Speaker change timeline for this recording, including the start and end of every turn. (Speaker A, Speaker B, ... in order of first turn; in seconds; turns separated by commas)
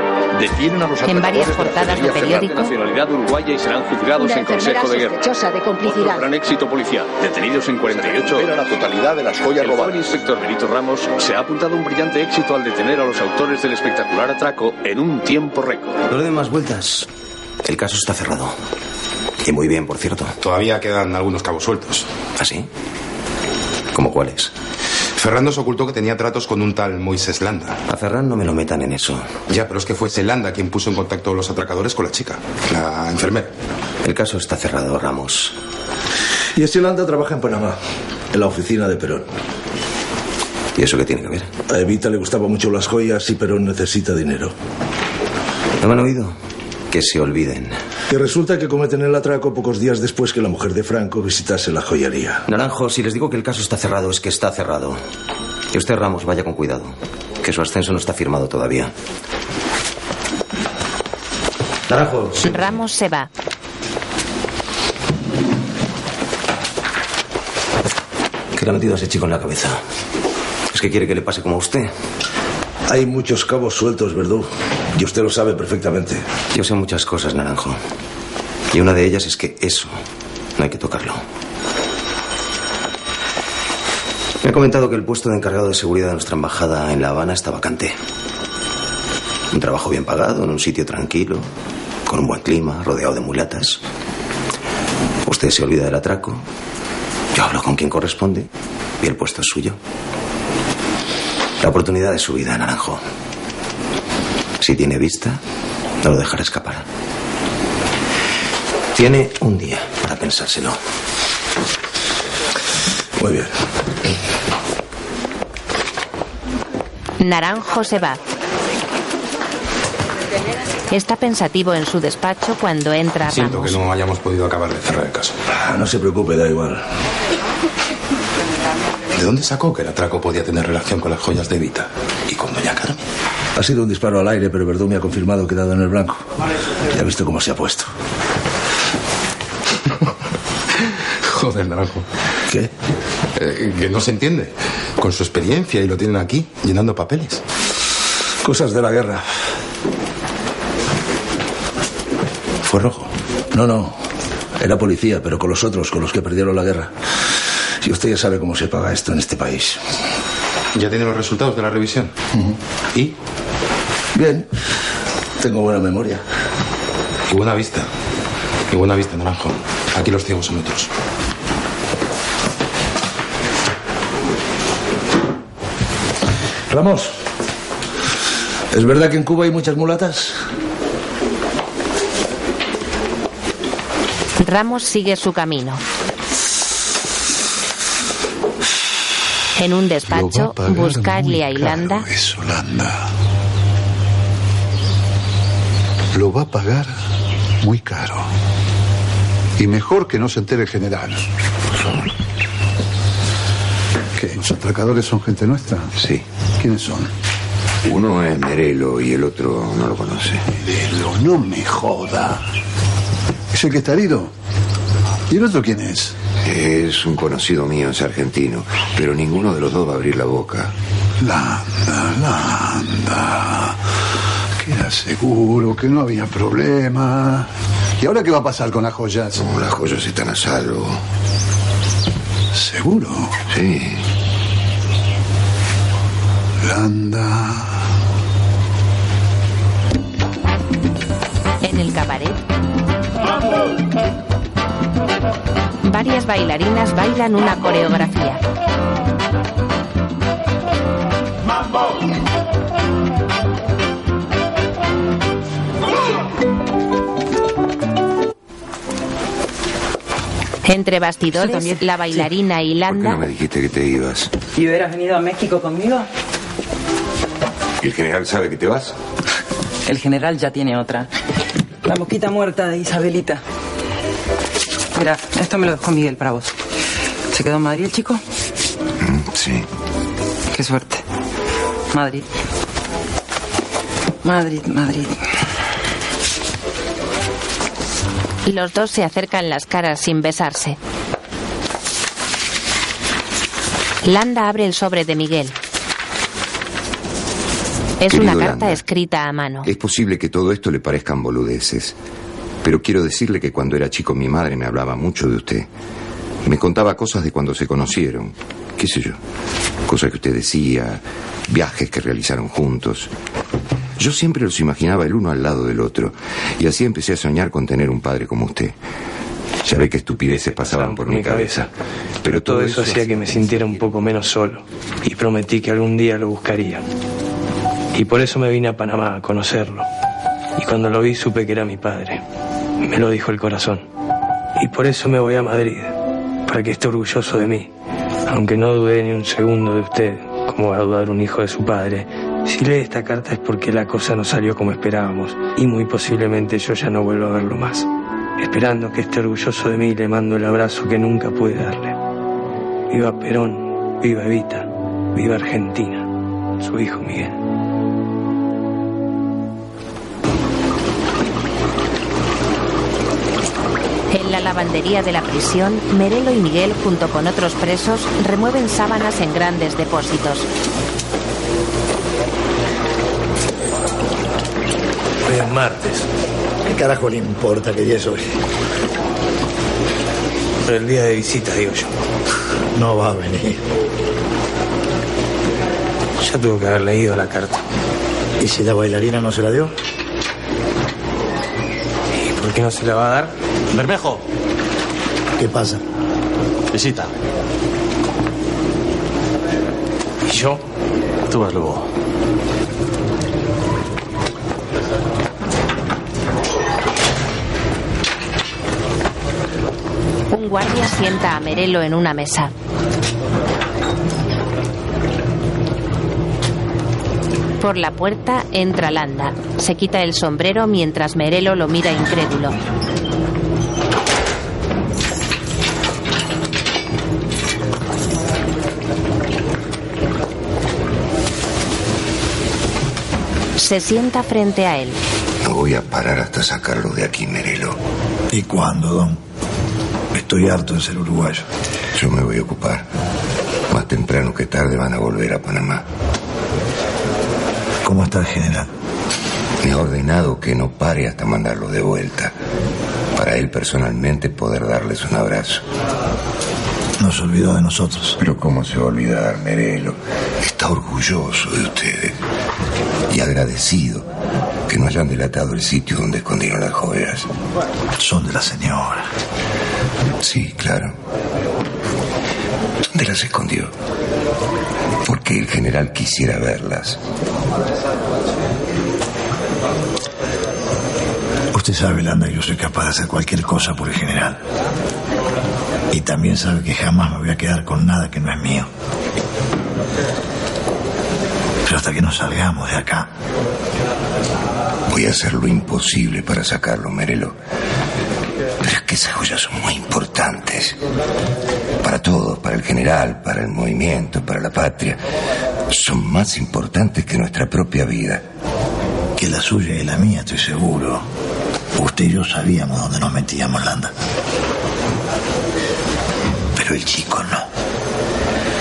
Speaker A: 0.4-5.3, Speaker B: 1.0-2.7, Speaker A: 5.8-16.0, Speaker C: 16.1-17.1, Speaker C: 17.6-18.5, Speaker C: 19.4-20.3, Speaker D: 20.4-22.1, Speaker C: 22.4-22.7, Speaker C: 23.9-24.5, Speaker D: 25.2-27.8, Speaker C: 27.9-29.4, Speaker D: 29.5-33.5, Speaker C: 34.0-35.5, Speaker E: 36.5-37.8, Speaker E: 38.3-39.2, Speaker C: 40.8-41.5, Speaker E: 41.7-44.5, Speaker C: 45.8-46.4, Speaker C: 46.9-47.8, Speaker E: 48.1-52.4, Speaker C: 52.5-55.0, Speaker C: 55.7-58.9, Speaker C: 61.9-62.6, Speaker B: 62.4-63.3, Speaker C: 68.5-69.8, Speaker C: 70.7-71.9, Speaker E: 72.9-76.2, Speaker C: 76.5-77.8, Speaker C: 78.7-80.0, Speaker C: 80.6-81.2, Speaker C: 84.4-87.9, Speaker C: 89.5-91.5, Speaker C: 92.0-93.8, Speaker C: 95.2-96.4, Speaker C: 97.3-98.5, Speaker C: 99.0-99.8, Speaker C: 101.6-103.0, Speaker C: 104.6-105.4, Speaker C: 106.0-106.8, Speaker C: 108.9-110.8, Speaker E: 113.2-113.5, Speaker B: 117.2-118.2, Speaker B: 120.9-123.8, Speaker D: 123.2-125.4, Speaker E: 125.5-126.8, Speaker D: 129.1-133.0, Speaker E: 133.6-136.2, Speaker E: 136.9-137.9, Speaker D: 141.2-142.1, Speaker D: 143.3-147.4, Speaker E: 148.4-149.2, Speaker C: 152.7-153.0, Speaker E: 153.5-153.9, Speaker E: 154.6-156.9, Speaker E: 157.8-159.8, Speaker D: 160.7-162.1, Speaker E: 164.1-164.5, Speaker E: 165.4-166.2, Speaker D: 167.3-167.9, Speaker D: 168.7-170.9, Speaker E: 176.7-177.1, Speaker E: 178.7-180.4, Speaker B: 184.4-185.8, Speaker B: 189.6-192.1, Speaker F: 190.0-193.0, Speaker F: 196.1-196.9, Speaker F: 197.6-198.3, Speaker F: 199.6-201.2, Speaker F: 204.2-205.9, Speaker G: 206.0-206.2, Speaker F: 206.6-207.1, Speaker G: 207.8-210.4, Speaker F: 210.5-212.4, Speaker F: 213.5-214.3, Speaker F: 215.3-216.1, Speaker G: 216.4-220.7, Speaker F: 221.2-223.8, Speaker F: 224.6-227.5, Speaker F: 228.0-229.4, Speaker G: 229.3-231.0, Speaker F: 232.5-233.3, Speaker G: 233.5-234.0, Speaker F: 236.6-237.7, Speaker B: 241.6-242.4, Speaker B: 245.8-248.4, Speaker B: 260.6-263.2, Speaker G: 262.9-264.3, Speaker H: 264.5-266.1, Speaker G: 267.8-268.9, Speaker H: 269.9-271.1, Speaker H: 271.8-273.4, Speaker H: 274.9-276.5, Speaker H: 277.3-278.2, Speaker G: 279.0-279.6, Speaker H: 280.5-281.0, Speaker H: 281.9-282.2, Speaker H: 284.2-285.2, Speaker B: 288.4-290.8, Speaker B: 294.0-295.5, Speaker B: 298.0-299.7, Speaker G: 298.1-298.8, Speaker G: 299.6-301.9, Speaker G: 302.6-305.7, Speaker G: 306.4-309.2, Speaker G: 309.9-313.1, Speaker G: 314.0-318.8, Speaker G: 319.6-321.7, Speaker I: 320.3-321.6, Speaker G: 322.2-323.6, Speaker I: 322.4-326.8, Speaker I: 327.9-329.9, Speaker I: 330.6-332.2, Speaker I: 332.8-333.8, Speaker I: 334.6-335.9, Speaker I: 336.5-337.7, Speaker I: 338.3-347.8, Speaker I: 348.4-351.9, Speaker I: 352.9-356.0, Speaker I: 356.6-357.3, Speaker B: 364.1-370.5, Speaker I: 375.3-376.0, Speaker J: 376.6-378.2, Speaker I: 380.6-381.9, Speaker J: 382.7-383.6, Speaker I: 386.2-387.6, Speaker J: 388.4-389.7, Speaker I: 392.2-393.3, Speaker J: 395.4-395.8, Speaker I: 400.3-400.6, Speaker B: 410.3-412.5, Speaker B: 417.6-422.6, Speaker B: 433.6-435.0, Speaker G: 435.4-437.8, Speaker J: 438.3-439.2, Speaker J: 440.1-441.4, Speaker G: 441.9-442.9, Speaker G: 443.7-445.9, Speaker J: 447.8-448.7, Speaker G: 449.6-452.3, Speaker G: 453.1-455.6, Speaker J: 457.0-458.2, Speaker G: 458.2-462.1, Speaker G: 463.1-464.1, Speaker G: 464.7-467.3, Speaker J: 468.0-469.1, Speaker G: 470.2-470.9, Speaker G: 472.9-473.7, Speaker G: 475.0-477.0, Speaker J: 481.5-484.4, Speaker J: 485.9-488.7, Speaker J: 491.6-493.1, Speaker G: 494.9-497.4, Speaker G: 498.6-500.8, Speaker G: 501.8-505.0, Speaker G: 505.7-508.2, Speaker J: 509.1-511.1, Speaker J: 511.7-513.9, Speaker J: 516.5-517.5